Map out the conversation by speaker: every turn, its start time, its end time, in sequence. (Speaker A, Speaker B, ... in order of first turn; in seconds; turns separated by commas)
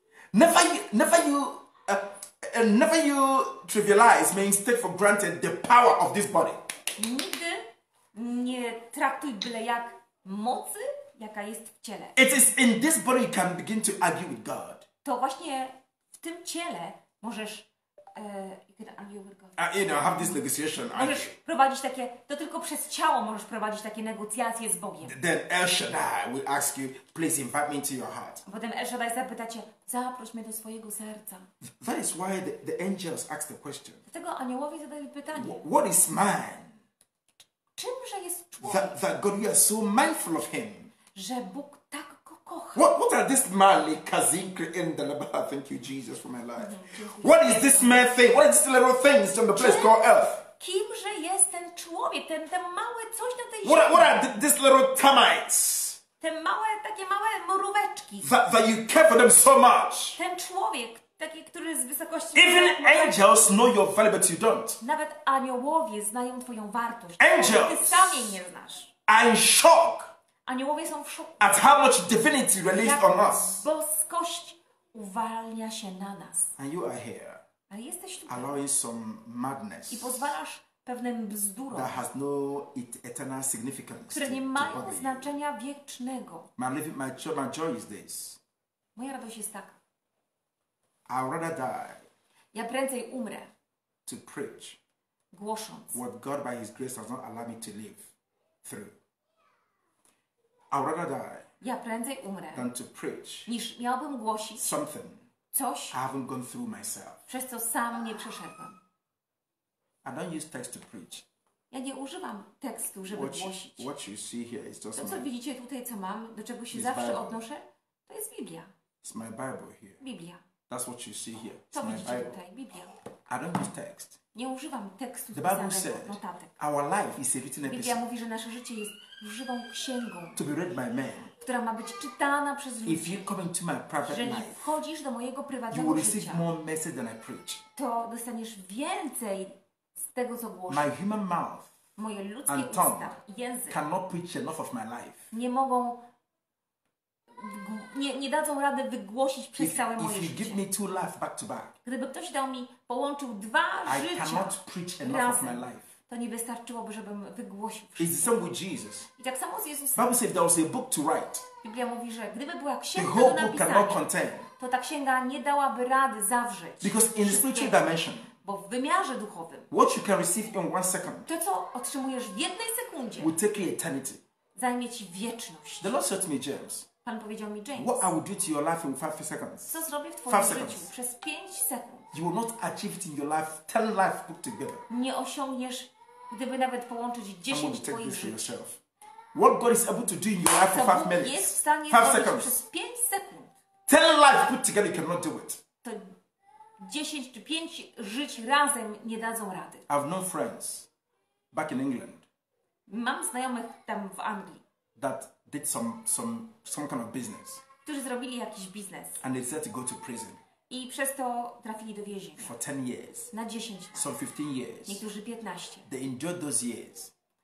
Speaker A: 0.3-6.7, Speaker B: 7.0-12.2, Speaker A: 12.2-14.8, Speaker B: 15.0-19.6, Speaker A: 19.6-21.3, Speaker B: 20.9-25.1, Speaker A: 25.0-28.4, Speaker B: 28.4-31.5, Speaker A: 31.7-34.0, Speaker B: 34.1-35.6, Speaker A: 35.4-36.7, Speaker B: 37.8-39.1, Speaker A: 38.6-40.9, Speaker B: 41.1-42.9, Speaker A: 42.8-50.4, Speaker B: 46.6-48.1, Speaker B: 49.5-54.3, Speaker A: 53.6-56.0, Speaker B: 56.2-58.3, Speaker A: 58.2-60.2, Speaker B: 60.2-63.3, Speaker A: 62.4-64.8, Speaker B: 64.8-68.9, Speaker A: 67.2-68.4, Speaker A: 69.1-70.1, Speaker B: 70.5-71.7, Speaker A: 71.4-73.7, Speaker B: 72.7-76.6, Speaker A: 76.6-77.4, Speaker B: 77.7-78.6, Speaker A: 78.3-80.3, Speaker B: 79.9-82.0, Speaker A: 81.7-85.3, Speaker B: 84.1-86.5, Speaker A: 86.6-88.4, Speaker B: 89.0-89.8, Speaker A: 91.1-92.0, Speaker B: 92.5-93.5, Speaker A: 94.1-94.8, Speaker B: 95.3-96.0, Speaker A: 95.9-98.1, Speaker A: 98.6-99.0, Speaker A: 100.7-101.5, Speaker B: 101.6-102.7, Speaker A: 102.5-103.5, Speaker B: 103.5-104.7, Speaker A: 104.6-105.2, Speaker B: 105.5-106.0, Speaker A: 105.9-107.2, Speaker B: 107.3-108.8, Speaker A: 110.0-111.2, Speaker B: 111.7-113.9, Speaker A: 113.1-115.3, Speaker B: 115.0-118.7, Speaker A: 116.7-117.4, Speaker A: 119.0-120.0, Speaker B: 120.0-120.5, Speaker A: 120.7-122.4, Speaker B: 121.7-123.0, Speaker A: 123.3-124.2, Speaker B: 124.3-126.6, Speaker A: 125.3-128.0, Speaker B: 127.6-130.4, Speaker A: 130.4-131.3, Speaker B: 131.4-133.3, Speaker A: 132.8-134.8, Speaker B: 134.1-136.4, Speaker A: 135.7-137.6, Speaker B: 137.8-140.9, Speaker A: 140.7-141.7, Speaker B: 142.0-143.8, Speaker A: 142.5-143.1, Speaker A: 143.7-145.3, Speaker B: 145.3-146.1, Speaker B: 147.3-150.6, Speaker A: 149.6-151.7, Speaker B: 151.8-158.5, Speaker A: 153.9-155.9, Speaker A: 158.0-159.1, Speaker B: 159.2-160.1, Speaker A: 160.0-161.5, Speaker B: 161.6-164.1, Speaker A: 162.9-164.5, Speaker B: 164.6-167.9, Speaker A: 166.8-168.3, Speaker B: 168.4-169.7, Speaker A: 169.7-171.3, Speaker B: 171.3-173.3, Speaker A: 173.2-174.2, Speaker B: 174.6-176.0, Speaker A: 175.8-176.9, Speaker B: 177.0-178.1, Speaker A: 177.8-180.9, Speaker B: 179.7-182.1, Speaker A: 182.1-184.8, Speaker B: 184.9-188.6, Speaker A: 187.5-188.8, Speaker A: 189.3-192.5, Speaker B: 190.5-193.6, Speaker A: 193.9-195.6, Speaker B: 195.8-196.1, Speaker B: 196.8-199.8, Speaker A: 199.9-200.9, Speaker A: 201.5-202.2, Speaker B: 202.9-204.6, Speaker A: 205.0-207.6, Speaker B: 207.8-209.2, Speaker A: 209.2-210.4, Speaker B: 210.7-212.6, Speaker A: 212.4-213.3, Speaker B: 213.3-214.1, Speaker A: 213.9-215.0, Speaker B: 214.9-215.9, Speaker A: 215.9-217.1